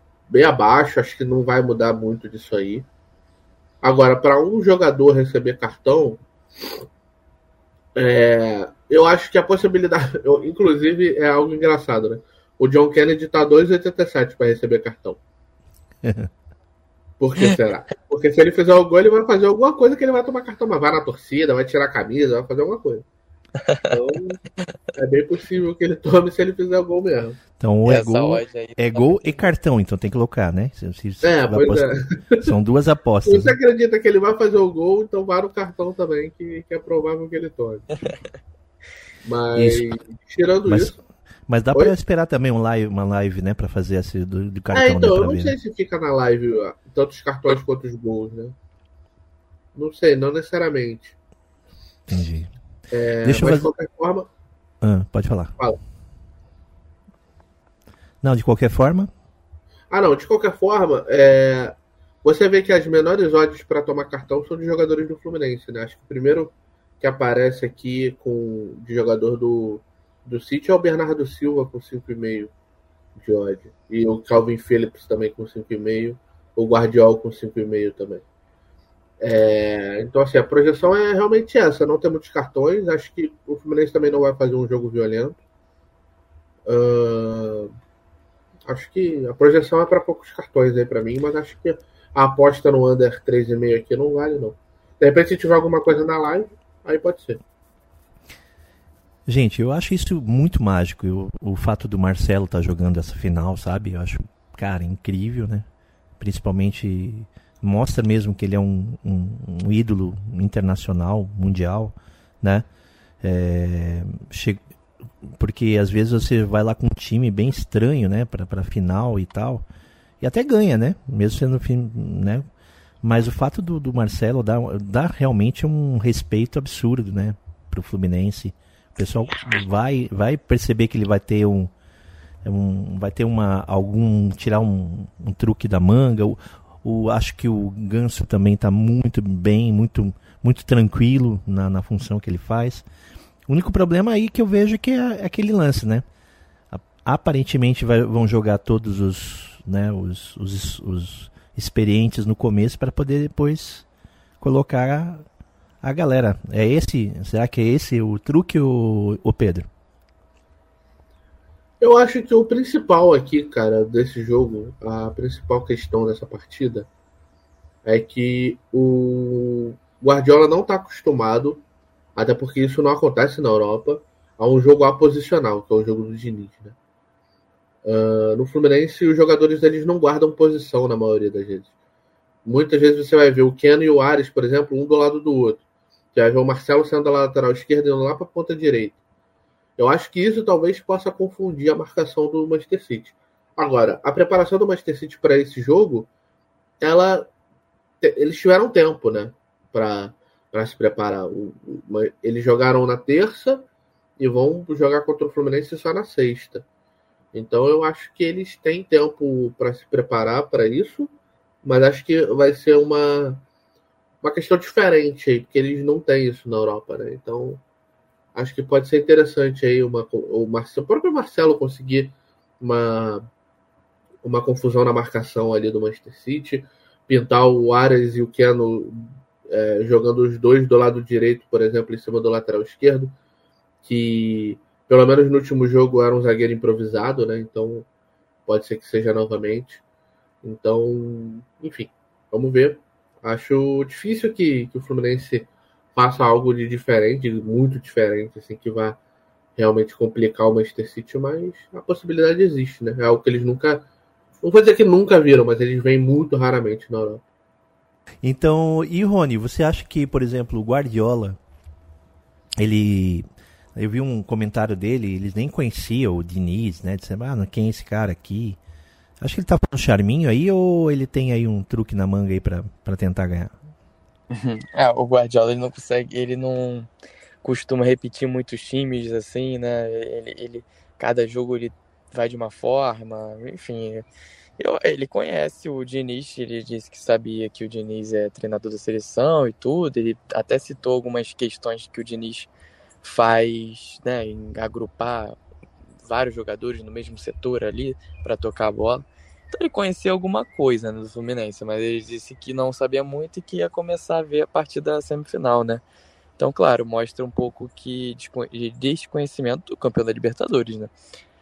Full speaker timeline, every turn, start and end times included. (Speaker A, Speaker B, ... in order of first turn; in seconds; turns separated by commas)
Speaker A: 0.3-2.9, Speaker A: 3.8-6.2, Speaker A: 7.9-15.2, Speaker B: 16.0-16.3, Speaker A: 17.2-23.0, Speaker C: 23.6-23.9, Speaker A: 23.9-24.4, Speaker A: 24.9-27.4, Speaker B: 27.6-31.9, Speaker C: 27.8-29.4, Speaker A: 31.2-32.5, Speaker B: 32.4-33.5, Speaker A: 33.2-38.0, Speaker A: 39.2-41.0, Speaker B: 39.5-39.9, Speaker B: 40.6-41.0, Speaker B: 41.5-45.5, Speaker A: 44.7-48.5, Speaker A: 49.7-51.1, Speaker B: 52.1-52.5, Speaker A: 52.9-54.3, Speaker B: 53.2-53.7, Speaker B: 54.8-55.5, Speaker B: 58.2-59.1, Speaker A: 59.9-72.5, Speaker A: 73.2-78.2, Speaker A: 79.2-85.4, Speaker A: 86.7-87.7, Speaker A: 88.7-97.4, Speaker B: 99.2-105.7, Speaker B: 106.2-112.6, Speaker B: 113.2-114.6, Speaker B: 115.2-119.6, Speaker B: 120.2-122.4, Speaker B: 123.0-131.7, Speaker B: 132.4-142.8, Speaker B: 143.5-146.0, Speaker B: 146.7-153.8, Speaker B: 154.4-155.2, Speaker B: 155.8-159.7, Speaker A: 161.8-166.9, Speaker A: 167.8-171.6, Speaker A: 172.2-176.8, Speaker A: 177.8-181.7, Speaker A: 182.4-185.6, Speaker A: 186.1-189.0, Speaker A: 189.8-196.1, Speaker A: 196.8-197.3, Speaker A: 198.0-203.7, Speaker A: 204.2-206.6, Speaker A: 207.3-211.1, Speaker A: 211.6-213.4, Speaker A: 214.2-217.6, Speaker A: 218.3-223.3, Speaker A: 224.2-233.1, Speaker A: 233.8-237.8, Speaker A: 238.5-239.8, Speaker A: 240.4-249.0, Speaker A: 249.6-253.9, Speaker A: 254.4-257.2, Speaker B: 258.2-261.4, Speaker B: 262.6-268.6, Speaker B: 269.2-273.5, Speaker C: 274.3-276.9, Speaker C: 277.4-284.0, Speaker C: 284.6-292.5, Speaker C: 293.0-295.4, Speaker C: 296.1-305.8, Speaker C: 306.4-310.9